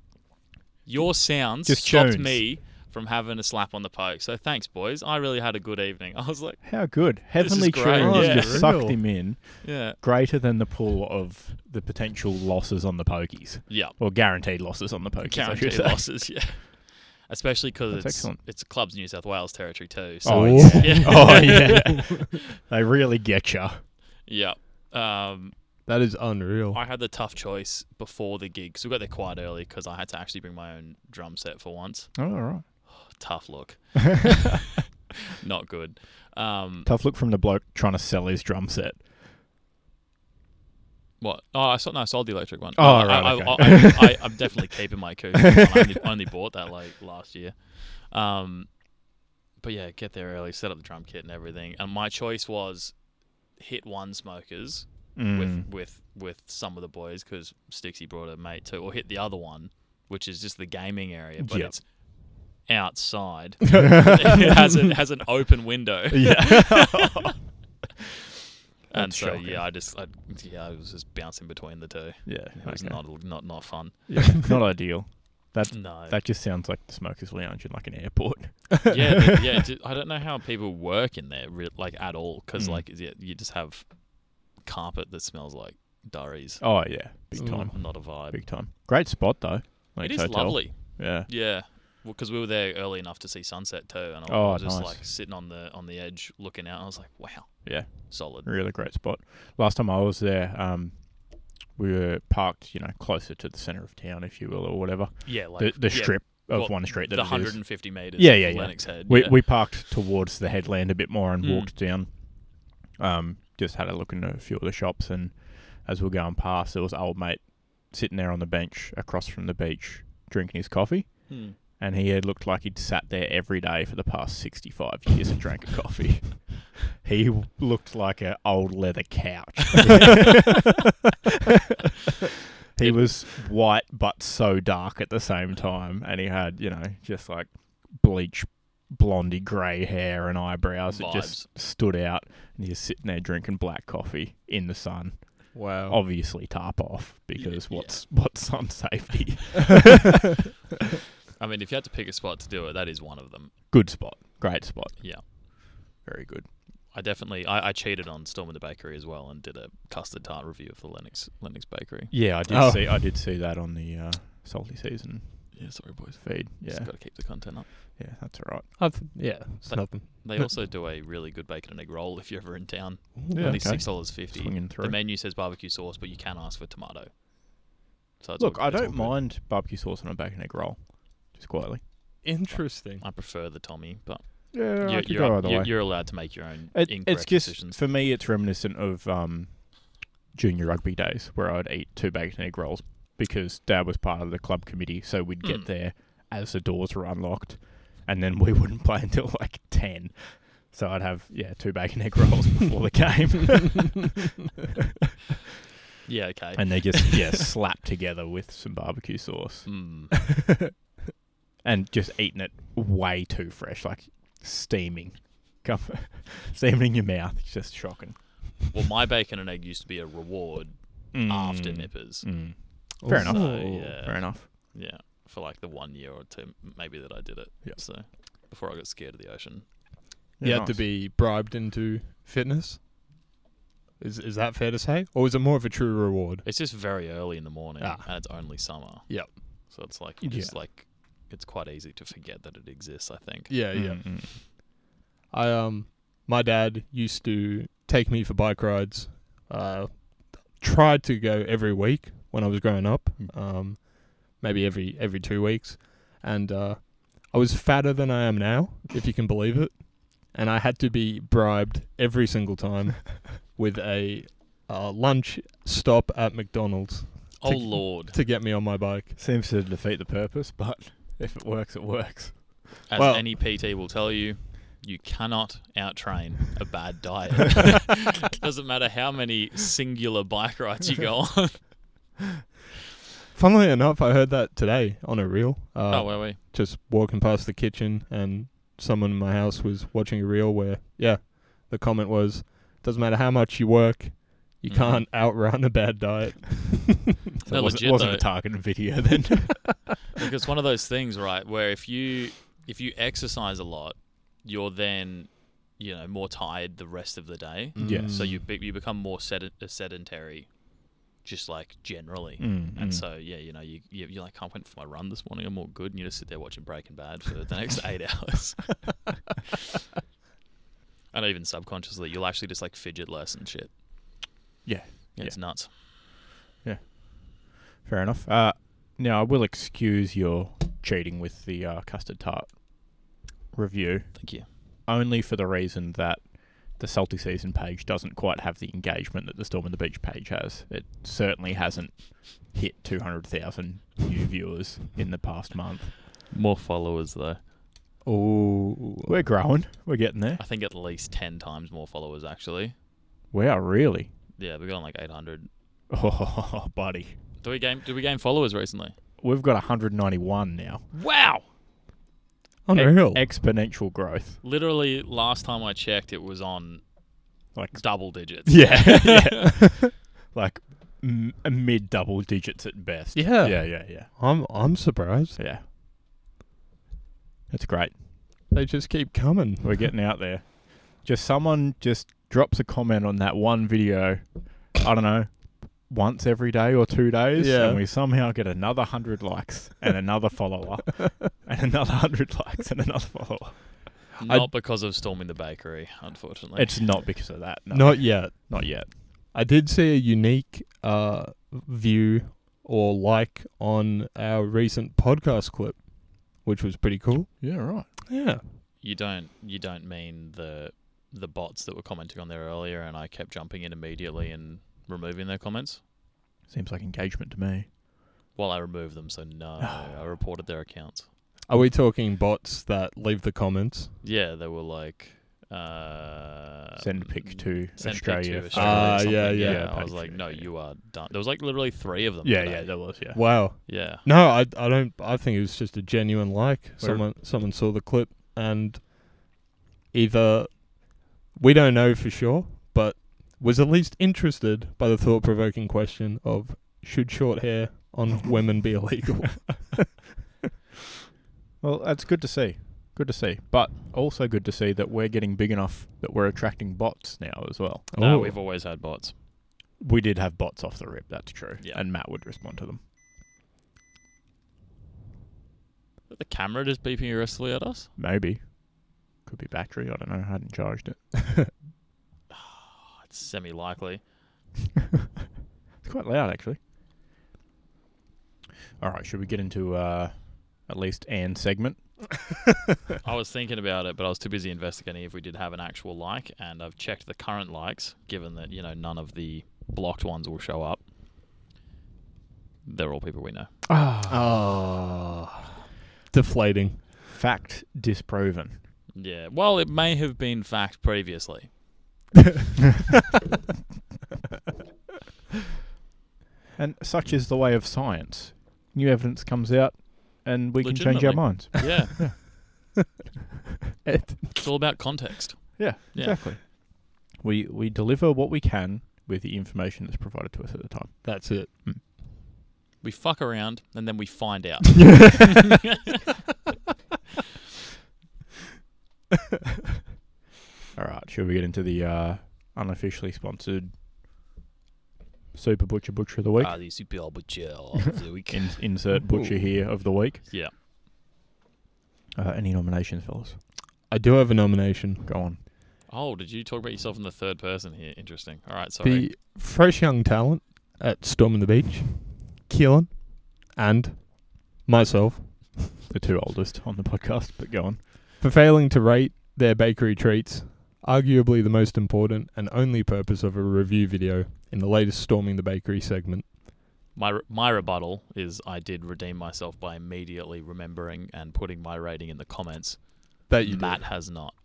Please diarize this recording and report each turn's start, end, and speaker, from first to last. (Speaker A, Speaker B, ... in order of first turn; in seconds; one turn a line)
Speaker A: 0.8-10.0
Speaker B: 1.0-2.5
Speaker B: 6.6-16.3
Speaker C: 8.0-9.0
Speaker A: 13.7-14.0
Speaker A: 15.2-22.2
Speaker B: 17.9-18.4
Speaker B: 20.2-23.8
Speaker C: 20.3-21.9
Speaker A: 24.3-25.5
Speaker C: 25.9-26.8
Speaker A: 26.7-34.6
Speaker B: 32.2-32.6
Speaker A: 35.4-36.9
Speaker B: 36.8-39.0
Speaker A: 41.2-49.1
Speaker B: 42.8-44.4
Speaker A: 49.6-67.0
Speaker B: 55.1-55.7
Speaker B: 61.4-61.8
Speaker C: 63.7-64.7
Speaker B: 66.1-67.5
Speaker A: 68.9-74.3
Speaker B: 68.9-69.7
Speaker B: 72.2-79.1
Speaker A: 75.7-76.2
Speaker A: 78.9-88.5
Speaker B: 82.5-82.8
Speaker B: 86.6-91.3
Speaker C: 87.3-87.7
Speaker A: 90.0-98.8
Speaker B: 94.3-95.0
Speaker B: 97.6-130.8
Speaker A: 105.2-109.7
Speaker A: 111.4-111.7
Speaker A: 121.3-121.6
Speaker B: 132.7-150.2
Speaker A: 132.8-133.1
Speaker A: 140.9-141.5
Speaker C: 145.5-146.0
Speaker A: 147.4-148.0
Speaker A: 151.4-153.6
Speaker B: 153.7-156.5
Speaker A: 155.0-155.2
Speaker A: 156.9-162.1
Speaker B: 162.1-168.7
Speaker C: 162.5-163.0
Speaker A: 165.5-167.7
Speaker C: 168.8-170.5
Speaker A: 169.7-177.2
Speaker C: 173.2-173.6
Speaker B: 173.3-175.0
Speaker A: 178.2-179.2
Speaker B: 178.4-181.8
Speaker C: 182.2-183.0
Speaker A: 182.5-187.8
Speaker B: 184.5-204.1
Speaker A: 195.4-195.7
Speaker A: 206.1-207.4
Speaker B: 206.6-209.7
Speaker A: 209.7-210.1
Speaker B: 211.6-218.6
Speaker A: 218.7-222.6
Speaker B: 221.1-224.5
Speaker C: 223.0-223.7
Speaker A: 223.1-229.7
Speaker B: 230.4-230.8
Speaker C: 230.4-232.8
Speaker C: 234.0-236.5
Speaker A: 236.4-243.5
Speaker C: 237.8-239.4
Speaker B: 240.2-240.6
Speaker C: 243.5-244.6
Speaker B: 243.7-244.4
Speaker C: 245.3-269.1
Speaker A: 267.4-268.1
Speaker B: 269.1-272.7
Speaker A: 272.9-281.8
Speaker C: 273.0-273.3
Speaker C: 283.3-297.2
Speaker A: 285.9-286.4
Speaker A: 294.7-295.1
Speaker B: 297.4-299.8
Speaker A: 297.5-298.3
Speaker A: 300.2-319.0
Speaker C: 307.8-308.4
Speaker B: 307.8-308.3
Speaker B: 312.4-313.1
Speaker A: 321.1-324.2
Speaker B: 324.6-326.1
Speaker A: 325.1-325.7
Speaker B: 326.6-346.0
Speaker A: 334.1-334.5
Speaker A: 346.3-347.4
Speaker C: 348.0-349.2
Speaker B: 349.1-350.4
Speaker A: 350.4-352.8
Speaker B: 353.3-354.1
Speaker A: 354.4-355.5
Speaker B: 355.9-357.2
Speaker A: 357.4-359.0
Speaker B: 359.2-360.9
Speaker A: 360.9-361.4
Speaker C: 362.7-363.2
Speaker B: 362.8-364.4
Speaker A: 364.4-367.1
Speaker B: 367.5-374.1
Speaker A: 367.7-369.3
Speaker C: 373.1-375.4
Speaker B: 375.4-375.6
Speaker B: 377.5-378.0
Speaker C: 378.5-379.9
Speaker B: 379.6-393.9
Speaker C: 387.4-387.8
Speaker A: 394.2-397.0
Speaker B: 396.6-398.9
Speaker C: 397.7-408.6
Speaker B: 407.4-407.9
Speaker A: 408.8-415.8
Speaker B: 416.5-417.7
Speaker A: 418.4-421.1
Speaker B: 419.6-420.1
Speaker C: 421.5-423.9
Speaker A: 424.0-433.1
Speaker B: 426.8-430.5
Speaker C: 428.5-429.7
Speaker B: 432.2-433.3
Speaker C: 433.1-439.4
Speaker A: 433.7-434.1
Speaker B: 436.8-437.1
Speaker C: 439.9-449.9
Speaker B: 451.6-457.9
Speaker C: 457.9-458.4
Speaker A: 458.0-459.1
Speaker B: 459.8-462.8
Speaker A: 466.1-467.9
Speaker B: 468.0-471.1
Speaker A: 472.3-474.1
Speaker B: 475.8-476.6
Speaker B: 478.8-482.0
Speaker A: 483.0-490.9
Speaker A: 492.6-493.7
Speaker B: 493.7-494.2
Speaker C: 494.1-495.5
Speaker C: 496.1-496.9
Speaker B: 497.1-498.6
Speaker A: 498.9-501.6
Speaker B: 506.6-512.2
Speaker A: 510.6-512.0
Speaker C: 513.9-514.5
Speaker A: 514.4-516.2
Speaker B: 515.6-521.8
Speaker C: 521.0-521.5
Speaker A: 522.8-525.4
Speaker B: 530.8-533.7
Speaker B: 535.3-536.6
Speaker A: 536.4-538.7
Speaker B: 538.3-540.2
Speaker C: 538.9-539.5
Speaker A: 540.3-540.5
Speaker B: 542.2-543.4
Speaker C: 543.9-545.1
Speaker B: 545.1-545.4
Speaker A: 545.9-549.1
Speaker C: 548.8-555.7
Speaker B: 555.9-557.8
Speaker C: 558.2-566.3
Speaker A: 566.9-574.4
Speaker C: 573.3-573.9